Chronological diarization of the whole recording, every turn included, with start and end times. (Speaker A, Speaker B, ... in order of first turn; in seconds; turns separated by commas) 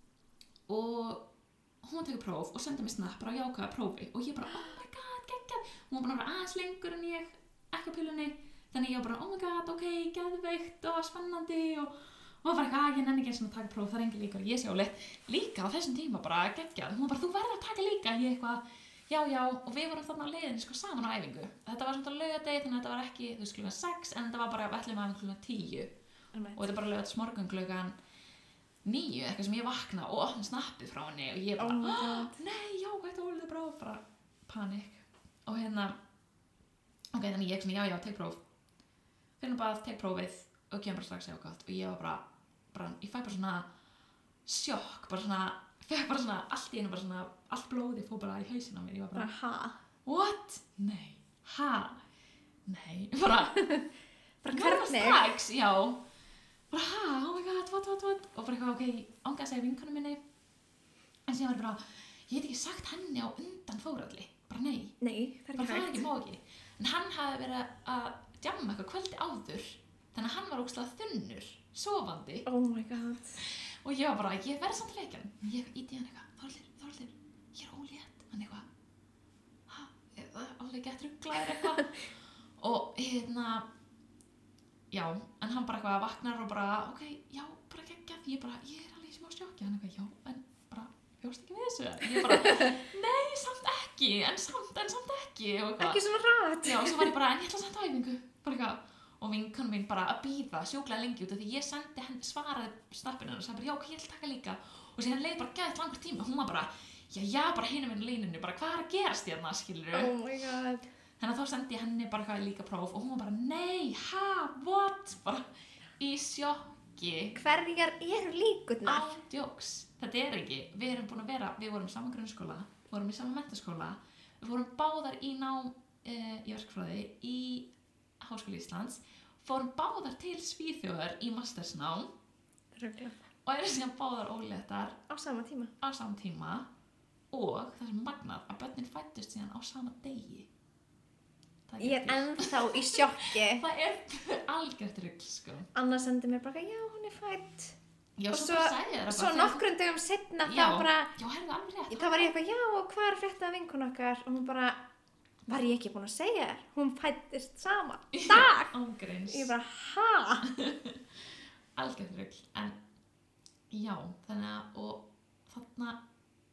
Speaker A: 0.7-1.3, Speaker A: 1.8-25.9, Speaker B: 26.3-26.6, Speaker A: 26.5-27.9, Speaker A: 28.8-36.0, Speaker B: 31.6-32.4, Speaker A: 37.1-38.4, Speaker A: 39.4-43.7, Speaker A: 44.4-49.3, Speaker B: 49.1-49.8, Speaker A: 50.0-52.0, Speaker A: 52.6-53.8, Speaker B: 53.6-53.9, Speaker B: 54.4-55.2, Speaker A: 54.5-56.0, Speaker A: 56.7-60.2, Speaker A: 61.3-65.0, Speaker B: 65.0-66.1, Speaker A: 65.5-72.5, Speaker B: 72.5-73.4, Speaker A: 73.4-78.7, Speaker A: 79.7-83.7, Speaker A: 84.9-96.0, Speaker B: 92.3-92.7, Speaker B: 95.8-97.1, Speaker A: 96.6-110.1, Speaker B: 109.9-110.9, Speaker A: 111.2-115.5, Speaker A: 116.0-117.4, Speaker B: 117.3-119.2, Speaker A: 118.8-127.7, Speaker A: 128.2-132.1, Speaker B: 132.7-133.2, Speaker A: 133.4-135.0, Speaker B: 135.1-135.7, Speaker A: 135.8-136.7, Speaker A: 137.3-140.5, Speaker A: 141.7-145.7, Speaker B: 141.8-143.6, Speaker B: 145.7-147.8, Speaker A: 148.2-149.7, Speaker B: 148.3-151.1, Speaker A: 150.4-152.3, Speaker B: 151.9-154.8, Speaker B: 155.5-158.7, Speaker A: 158.1-159.5, Speaker B: 159.3-160.4, Speaker A: 160.4-161.0, Speaker A: 161.8-162.8, Speaker A: 163.7-166.0